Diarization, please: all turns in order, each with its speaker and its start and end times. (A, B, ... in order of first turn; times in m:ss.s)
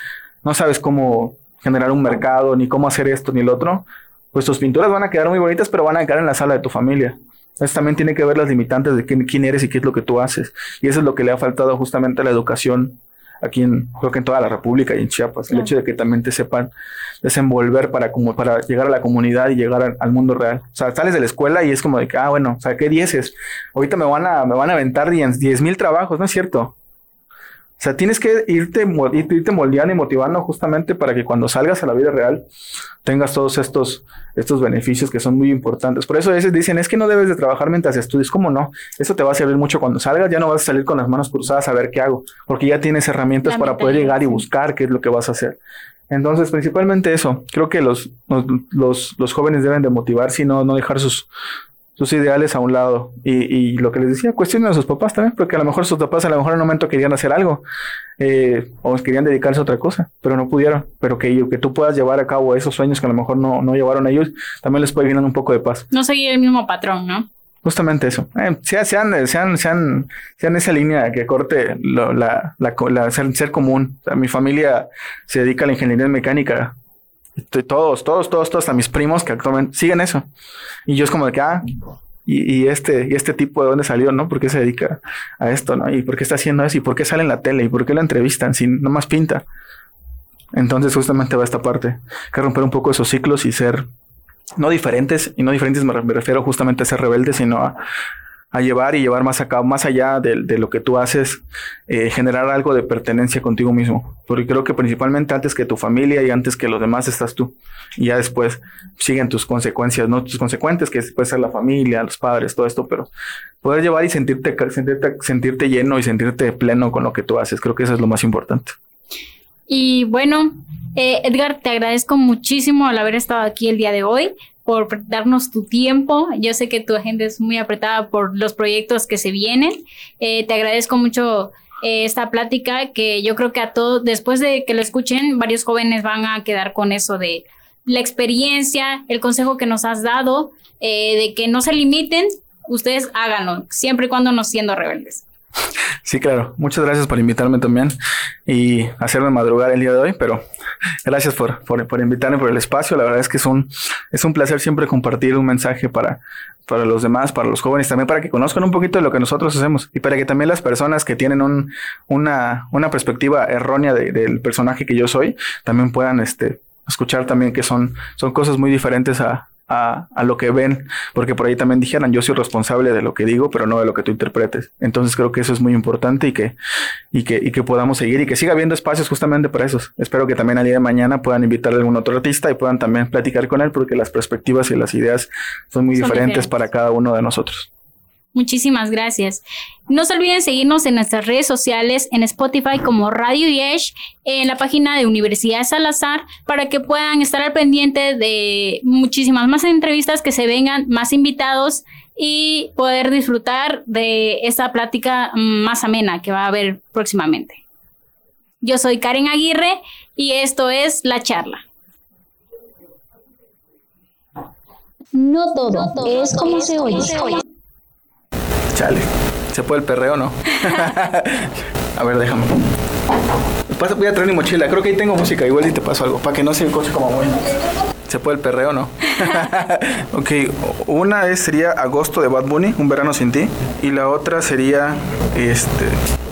0:00.4-0:16.7 A
0:17.2-0:26.7 A
0:27.8-0:32.4 A
0:33.0-0:45.6 A
0:43.5-0:44.4 B
0:46.1-0:51.3 A
0:52.0-0:57.6 A
0:58.2-1:05.9 A
1:05.9-1:07.3 B
1:07.6-1:16.8 A
1:17.4-1:20.3 A
1:20.9-1:21.7 A
1:22.3-1:29.4 A
1:30.5-1:33.9 A
1:34.6-1:37.8 A
1:38.5-1:53.1 A
1:53.6-1:58.8 A
1:59.7-2:25.2 B
2:26.0-2:28.0 A
2:28.5-2:30.4 A
2:31.0-2:56.6 A
2:57.1-3:07.7 A
3:06.0-3:06.5 B
3:08.3-3:27.6 B
3:28.6-3:31.6 B
3:35.1-3:37.4 C
3:38.7-3:42.7 A
3:43.7-3:47.5 A
3:48.1-3:56.0 A